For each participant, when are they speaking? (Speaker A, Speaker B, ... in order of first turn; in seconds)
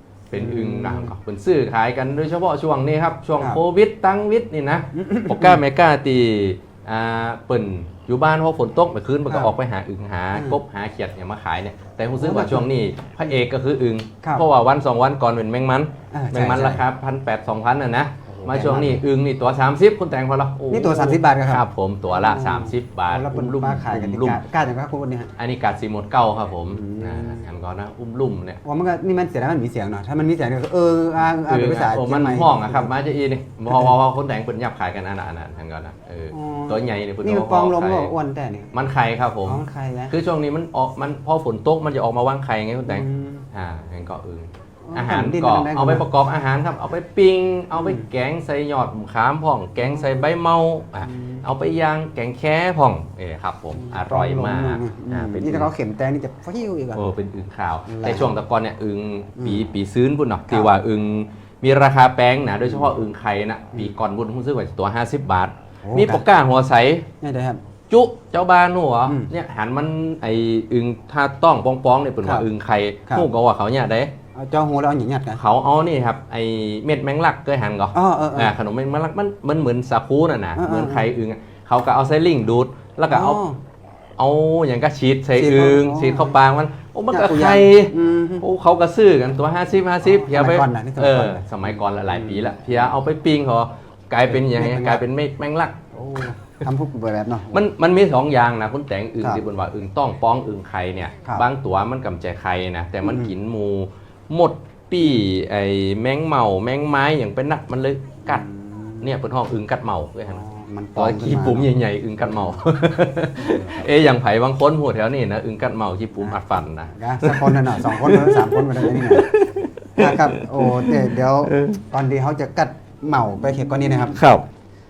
Speaker A: 0.3-24.5, 25.4-28.6, 31.5-38.1, 38.7-55.7, 57.0-67.1, 67.9-74.1, 75.3-83.4, 84.2-95.8, 97.5-108.4, 109.0-110.4, 111.0-121.8, 124.1-124.4
Speaker B: 0.3-1.1, 4.9-5.6, 9.3-9.5, 10.3-10.6, 12.2-12.7, 16.1-16.8, 18.3-19.0, 20.7-25.3, 26.7-27.4, 28.6-33.0, 33.7-34.0, 36.3-38.7, 39.5-40.1, 42.9-43.5, 44.8-46.1, 47.7-48.1, 49.9-50.2, 51.0-51.4, 53.7-57.1, 57.9-58.3, 59.4-59.6, 62.6-63.0, 65.8-66.2, 67.2-67.6, 72.2-72.5, 74.3-75.4, 77.9-78.5, 80.5-81.1, 83.1-83.6, 85.3-86.3, 87.1-88.5, 90.0-92.8, 94.3-95.0, 95.9-97.6, 103.0-103.3, 108.3-109.1, 110.3-111.7, 112.2-112.6, 113.4-114.0, 116.2-119.3, 120.0-124.3